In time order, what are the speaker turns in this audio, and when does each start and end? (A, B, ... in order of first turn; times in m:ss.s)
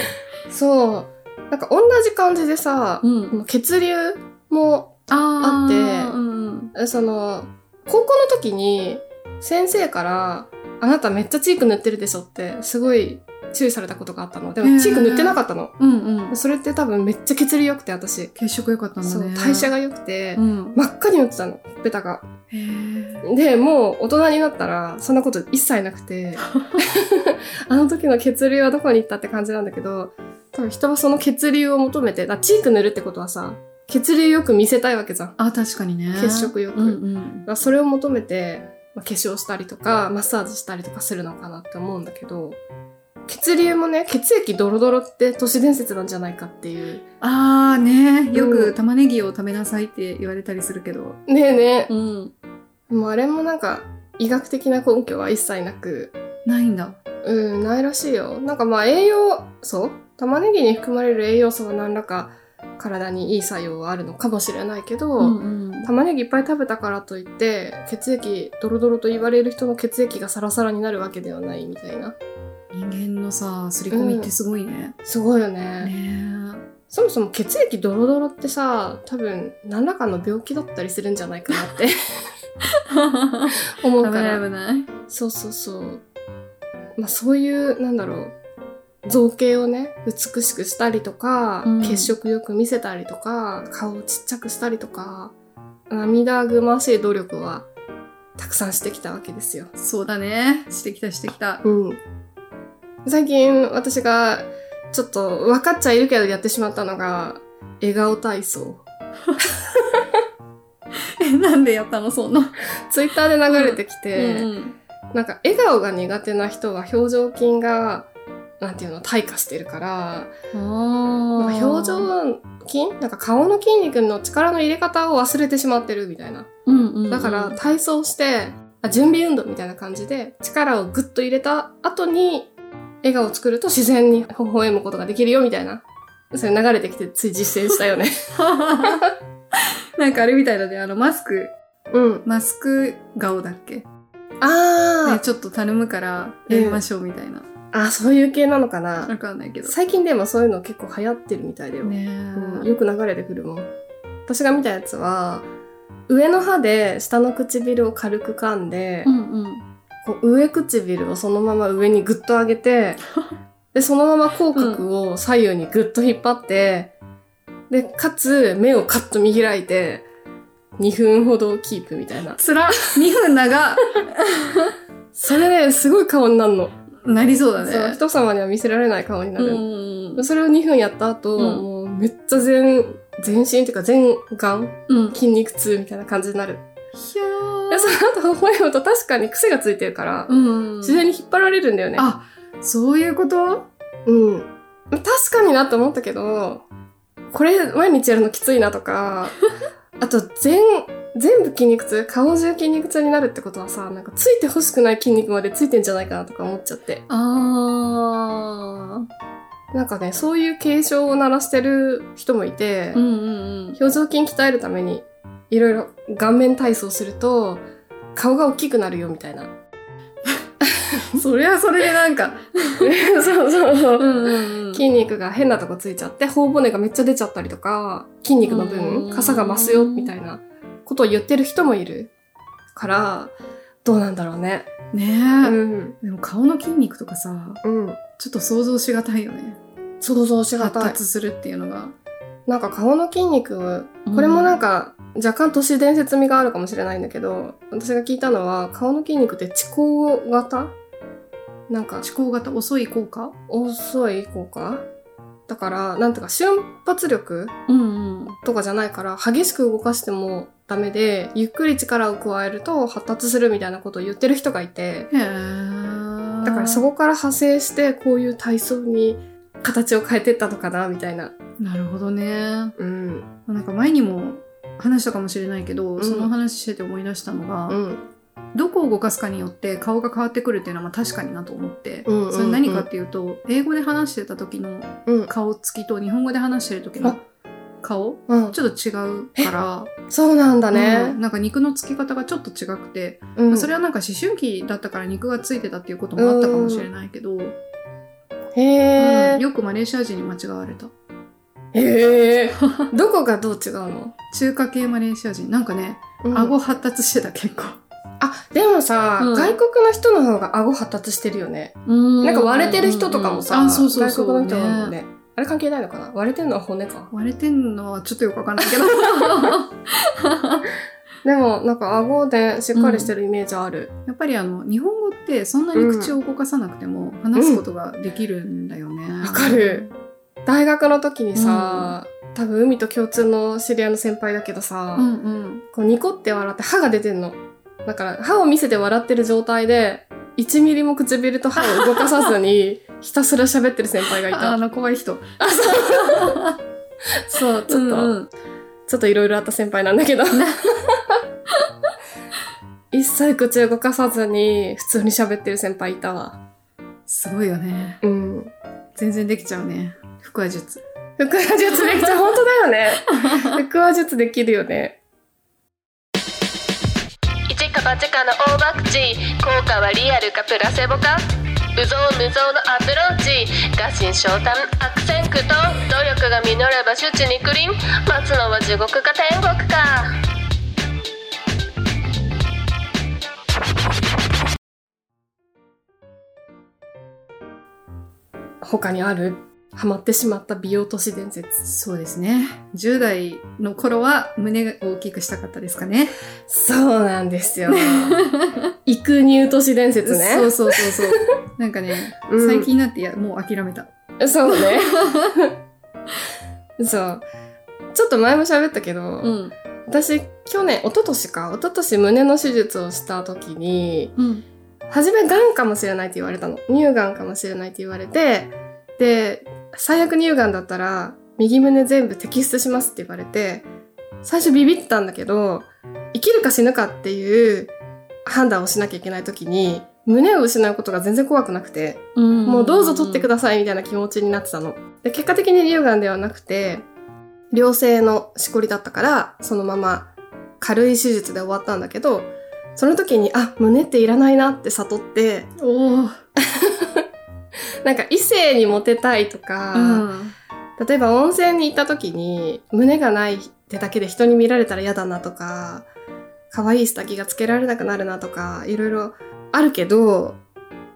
0:00.5-0:06.2 A
0:03.0-0:03.4 B
0:05.1-0:06.7 B
0:06.7-0:15.8 A
0:14.6-0:16.4 B
0:16.3-0:18.3 A
0:18.4-0:19.7 B
0:19.0-0:22.3 A
0:20.4-0:20.8 B
0:22.5-0:23.2 B
0:23.2-0:35.4 A
0:26.5-0:26.8 B
0:35.4-0:37.5 B
0:36.1-0:42.6 A
0:43.3-0:47.0 A
0:47.2-0:51.2 B
0:48.3-0:48.8 A
0:51.3-0:51.9 A
0:51.9-0:52.3 B
0:52.9-0:56.1 A
0:56.4-0:57.0 B
0:57.2-1:12.2 A
1:05.2-1:05.9 B
1:12.7-1:15.0 B
1:13.9-1:14.3 A
1:15.0-1:15.9 A
1:15.8-1:16.6 B
1:16.9-1:22.0 A
1:22.7-1:24.9 B
1:23.8-1:24.4 A
1:25.1-1:26.0 A
1:27.0-1:28.4 A
1:29.0-1:35.3 A
1:31.6-1:32.1 B
1:35.9-1:37.7 A
1:38.4-1:39.7 A
1:39.8-1:41.6 B
1:41.6-1:42.0 A
1:43.1-1:48.8 A
1:49.5-1:50.0 A
1:51.2-1:52.6 B
1:52.9-1:54.5 A
1:53.5-1:54.8 B
1:55.1-1:58.1 A
1:58.6-2:00.3 A
2:00.5-2:02.1 B
2:01.4-2:06.5 A
2:06.6-2:07.6 B
2:07.1-2:12.5 A
2:13.0-2:18.2 A
2:18.4-2:21.5 B
2:18.8-2:19.1 A
2:21.9-2:22.2 A
2:22.2-2:23.9 B
2:24.4-2:25.2 A
2:25.0-2:27.5 B
2:26.5-2:26.8 A
2:27.7-2:29.1 A
2:29.1-2:29.7 B
2:29.6-2:33.7 A
2:31.8-2:32.7 B
2:34.3-2:35.5 A
2:36.1-2:39.1 A
2:39.0-2:39.6 B
2:40.0-2:43.0 A
2:43.7-2:46.9 A
2:44.6-2:44.8 B
2:47.7-2:50.1 A
2:50.8-2:52.4 A
2:52.4-2:54.8 B
2:55.2-2:56.8 A
2:57.0-2:58.0 B
2:57.6-3:06.6 A
2:59.4-3:00.3 B
3:01.4-3:01.6 B
3:04.9-3:05.2 B
3:06.9-3:08.0 B
3:07.7-3:12.1 A
3:10.3-3:11.0 B
3:12.0-3:13.7 B
3:14.1-3:16.6 A
3:17.3-3:19.4 A
3:20.0-3:27.0 A
3:27.1-3:29.1 B
3:29.7-3:33.0 A
3:33.0-3:33.8 B
3:33.8-3:39.5 A
3:40.7-3:41.2 A
3:41.1-3:42.9 B
3:42.8-3:52.1 A
3:44.0-3:44.8 B
3:48.4-3:50.1 B
3:52.8-3:54.7 A
3:54.9-3:57.6 B
3:55.4-3:56.0 A
3:57.6-3:58.0 A
3:58.2-3:59.6 B
4:00.0-4:01.0 A
4:00.6-4:02.0 B
4:02.5-4:10.7 A
4:04.1-4:04.6 B
4:11.7-4:12.0 A
4:12.0-4:13.4 B
4:13.5-4:14.8 A
4:15.5-4:17.6 A
4:17.7-4:18.4 B
4:18.4-4:25.1 A
4:25.1-4:26.8 B
4:26.4-4:31.3 A
4:31.6-4:32.8 B
4:32.8-4:33.3 A
4:33.5-4:37.8 B
4:36.0-4:36.3 A
4:37.7-4:38.0 A
4:38.5-4:47.2 B
4:42.1-4:42.9 A
4:45.1-4:45.3 A
4:47.8-4:49.9 B
4:48.3-4:48.6 A
4:50.1-4:51.2 A
4:50.7-4:57.6 B
4:53.4-4:53.7 A
4:56.2-4:56.9 A
4:58.6-4:59.4 A
4:59.0-5:00.9 B
5:01.7-5:04.2 A
5:02.6-5:02.9 B
5:04.3-5:07.8 B
5:06.2-5:06.6 A
5:08.2-5:17.1 A
5:09.2-5:09.6 B
5:11.9-5:15.0 B
5:17.1-5:20.7 B
5:19.2-5:19.5 A
5:21.2-5:23.9 A
5:22.8-5:23.1 B
5:24.1-5:29.9 B
5:25.7-5:26.2 A
5:27.4-5:27.6 A
5:29.2-5:29.8 A
5:30.5-5:35.1 A
5:31.4-5:32.0 B
5:35.0-5:35.6 B
5:35.7-5:44.6 A
5:41.6-5:42.3 B
5:44.3-5:46.6 B
5:45.4-5:46.4 A
5:47.2-5:48.2 A
5:47.7-5:48.3 B
5:48.9-5:51.1 A
5:50.3-5:50.6 B
5:52.9-5:56.4 A
5:57.1-5:58.0 B
5:58.0-5:58.5 A
5:59.0-6:00.8 B
6:01.2-6:05.0 A
6:03.2-6:03.5 B
6:07.5-6:20.2 C
6:28.6-6:31.7 A
6:31.7-6:36.1 B
6:36.5-6:38.2 A
6:37.7-6:38.7 B
6:38.9-6:41.3 A
6:40.0-6:43.9 B
6:42.3-6:42.7 A
6:44.2-6:45.5 A
6:44.5-6:45.3 B
6:46.8-6:47.2 A
6:47.9-6:49.4 A
6:49.2-6:49.5 B
6:49.9-6:54.2 A
6:54.2-6:54.4 B
6:54.9-7:03.7 A
7:04.2-7:07.7 A
7:08.2-7:16.9 A
7:12.2-7:13.3 B
7:17.5-7:20.1 A
7:20.6-7:25.5 A
7:25.6-7:26.2 B
7:26.4-7:27.0 A
7:27.8-7:30.1 A
7:29.7-7:30.4 B
7:30.8-7:35.9 A
7:36.5-7:40.4 A